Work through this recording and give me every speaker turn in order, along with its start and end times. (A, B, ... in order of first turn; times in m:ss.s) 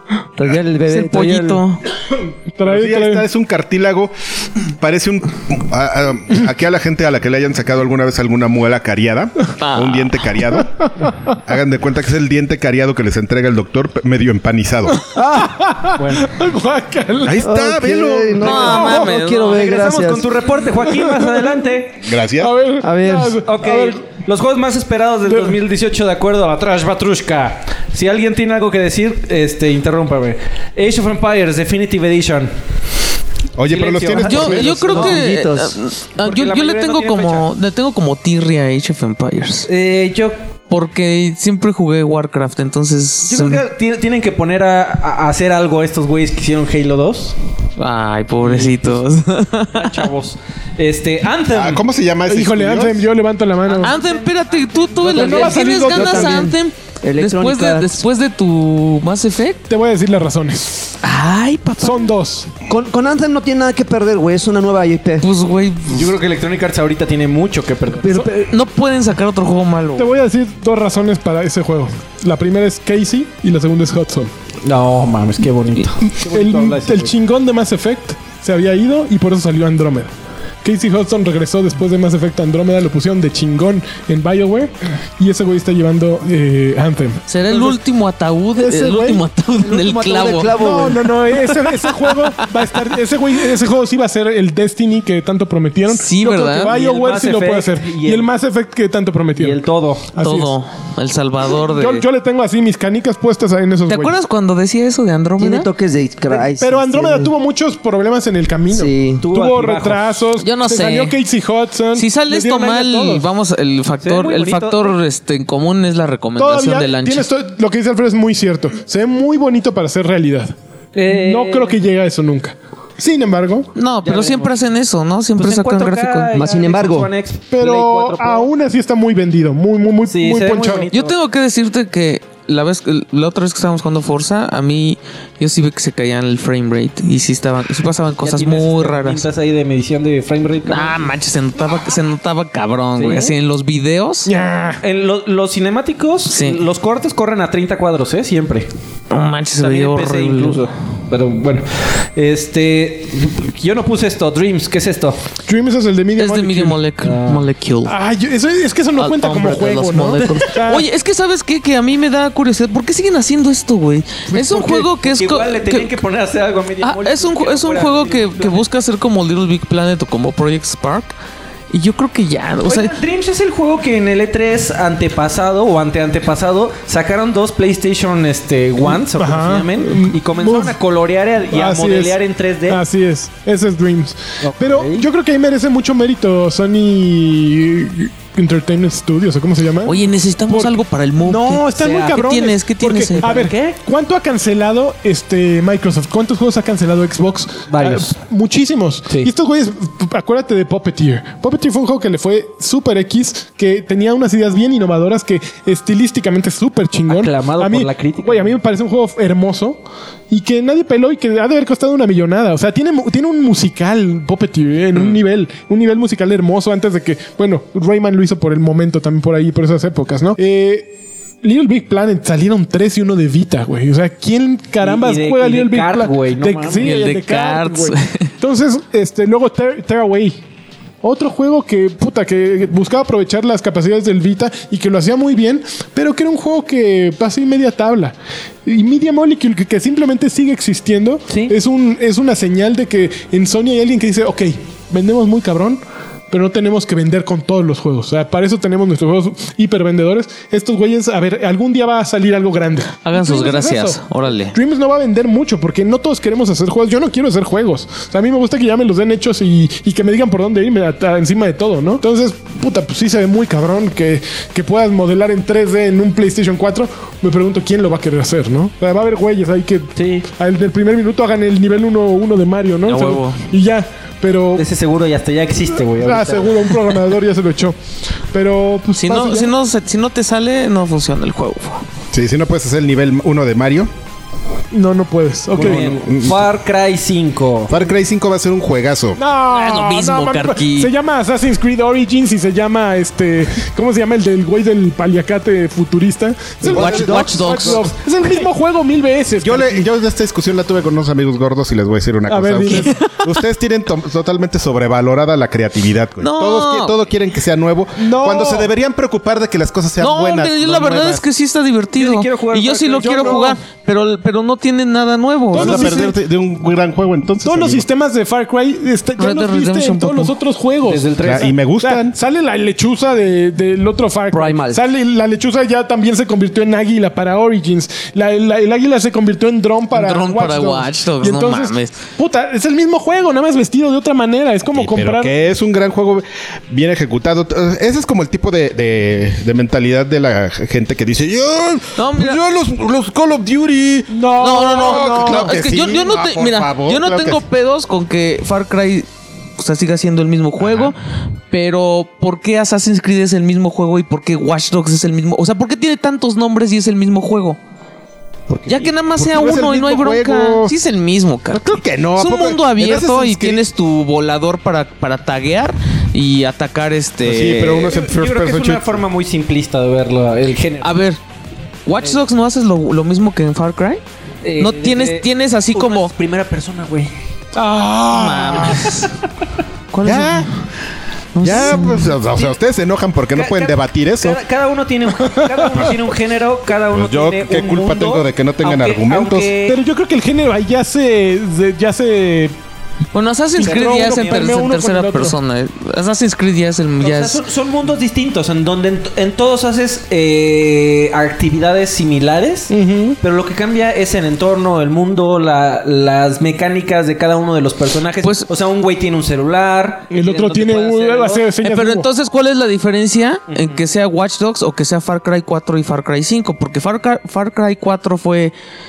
0:00.4-0:01.6 A
0:00.9-0:01.8 B
0:02.5-0:03.3 C
0:02.6-0:04.1 D
0:04.8-0:15.0 D
0:09.6-0:10.3 B
0:14.9-0:17.5 C
0:16.0-0:16.3 E
0:17.2-0:18.5 D
0:17.4-0:20.3 A
0:18.4-0:19.6 B
0:18.5-0:19.1 C
0:18.7-0:22.0 E
0:20.9-0:21.5 C
0:22.0-0:22.5 D
0:22.4-0:24.0 C
0:22.8-0:23.4 A
0:23.4-0:32.5 E
0:25.3-0:25.6 C
0:33.6-0:34.8 D
0:33.7-0:35.3 E
0:34.2-0:39.7 B
0:34.9-0:35.8 A
0:36.2-0:37.5 E
0:39.7-0:40.4 E
0:40.7-0:43.6 B
0:43.3-0:47.4 E
0:47.8-0:50.1 B
0:48.4-0:49.0 E
0:49.7-0:51.8 E
0:51.5-0:53.0 D
0:52.3-0:54.0 C
0:53.7-0:55.9 E
0:53.8-0:59.6 B
0:55.1-0:56.5 C
0:55.2-0:58.0 A
0:59.7-1:00.9 C
1:01.0-1:02.1 B
1:01.8-1:02.5 C
1:02.7-1:05.3 A
1:05.2-1:06.1 B
1:05.9-1:08.2 E
1:08.0-1:08.5 A
1:08.3-1:10.1 B
1:10.0-1:14.3 C
1:14.6-1:17.1 E
1:16.2-1:20.1 C
1:20.6-1:27.8 C
1:27.3-1:30.7 B
1:28.6-1:29.2 C
1:29.6-1:31.1 A
1:30.5-1:39.6 C
1:32.1-1:32.7 B
1:35.9-1:36.8 B
1:36.6-1:38.3 E
1:39.4-1:40.1 E
1:40.2-1:40.6 C
1:40.2-1:42.1 B
1:41.6-1:44.2 C
1:43.9-1:45.7 B
1:45.4-1:47.3 A
1:46.3-1:53.3 C
1:48.7-1:49.3 A
1:49.2-1:50.2 E
1:50.4-1:51.2 B
1:52.0-1:57.3 B
1:54.0-1:55.0 E
1:56.4-2:00.6 C
2:00.9-2:01.8 E
2:01.1-2:03.7 C
2:03.8-2:06.3 B
2:04.0-2:04.6 E
2:05.4-2:08.5 E
2:06.3-2:07.1 A
2:07.5-2:10.9 C
2:10.1-2:11.2 E
2:10.9-2:19.3 B
2:18.2-2:21.1 E
2:20.6-2:24.3 B
2:23.0-2:23.3 E
2:24.3-2:24.8 C
2:24.8-2:28.7 E
2:26.3-2:26.6 B
2:29.1-2:30.7 B
2:29.6-2:35.2 E
2:35.4-2:36.8 C
2:36.2-2:38.0 B
2:37.0-2:37.4 E
2:37.8-2:40.9 C
2:39.0-2:46.0 B
2:44.3-2:48.6 E
2:46.8-2:51.1 B
2:51.7-2:52.9 B
2:52.6-3:02.8 E
2:58.9-3:00.8 C
3:01.5-3:10.0 C
3:04.4-3:05.0 E
3:09.8-3:13.3 B
3:10.5-3:40.9 C
3:11.7-3:12.2 E
3:13.2-3:13.8 E
3:17.7-3:18.2 E
3:27.1-3:28.6 E
3:41.4-3:50.4 C
3:44.8-3:47.0 E
3:46.8-3:48.3 B
3:51.0-3:58.1 C
3:58.6-4:14.0 C
4:13.0-4:14.6 B
4:14.5-4:34.7 C
4:30.0-4:30.3 E
4:32.9-4:33.4 B
4:34.6-4:36.8 E
4:36.0-4:37.8 C
4:38.3-4:39.5 C
4:39.0-4:41.8 B
4:42.1-4:43.9 D
4:44.7-4:46.1 C
4:45.5-4:47.7 E
4:45.6-4:46.5 D
4:47.7-4:49.2 D
4:49.2-4:59.9 C
4:49.5-4:50.9 B
4:56.6-4:57.3 D
4:56.6-4:57.9 B
4:56.7-4:57.8 A
4:59.4-5:11.2 D
5:02.3-5:02.9 C
5:02.6-5:03.3 B
5:06.2-5:07.0 B
5:08.0-5:08.7 C
5:10.0-5:16.0 B
5:12.0-5:13.5 E
5:13.0-5:13.6 C
5:15.5-5:16.2 C
5:15.5-5:17.8 D
5:17.4-5:35.3 C
5:19.2-5:20.4 B
5:20.8-5:21.5 E
5:21.2-5:22.2 D
5:24.3-5:24.8 A
5:29.9-5:32.0 B
5:34.7-5:47.4 D
5:42.0-5:42.4 B
5:44.1-5:45.6 C
5:44.4-5:49.1 B
5:49.6-5:51.0 B
5:50.6-5:50.9 D
5:51.5-5:57.6 B
5:58.5-6:00.8 D
5:58.7-6:07.9 B
6:01.5-6:03.6 D
6:07.2-6:09.0 D
6:07.9-6:11.0 E
6:10.8-6:11.2 B
6:11.9-6:14.0 B
6:14.4-6:17.1 E
6:14.6-6:16.1 B
6:17.6-6:19.0 C
6:18.1-6:19.1 B
6:19.9-6:20.5 B
6:20.0-6:20.5 D
6:21.3-6:22.2 B
6:21.4-6:24.4 D
6:23.3-6:29.8 E
6:25.2-6:25.8 C
6:26.9-6:29.5 D
6:29.7-6:32.5 C
6:33.1-6:37.4 B
6:33.6-6:35.4 C
6:33.6-6:34.5 E
6:37.0-6:51.5 E
6:42.7-6:43.2 C
6:48.2-6:48.5 B
6:50.1-6:52.1 C
6:51.6-6:58.5 B
6:53.5-6:53.8 E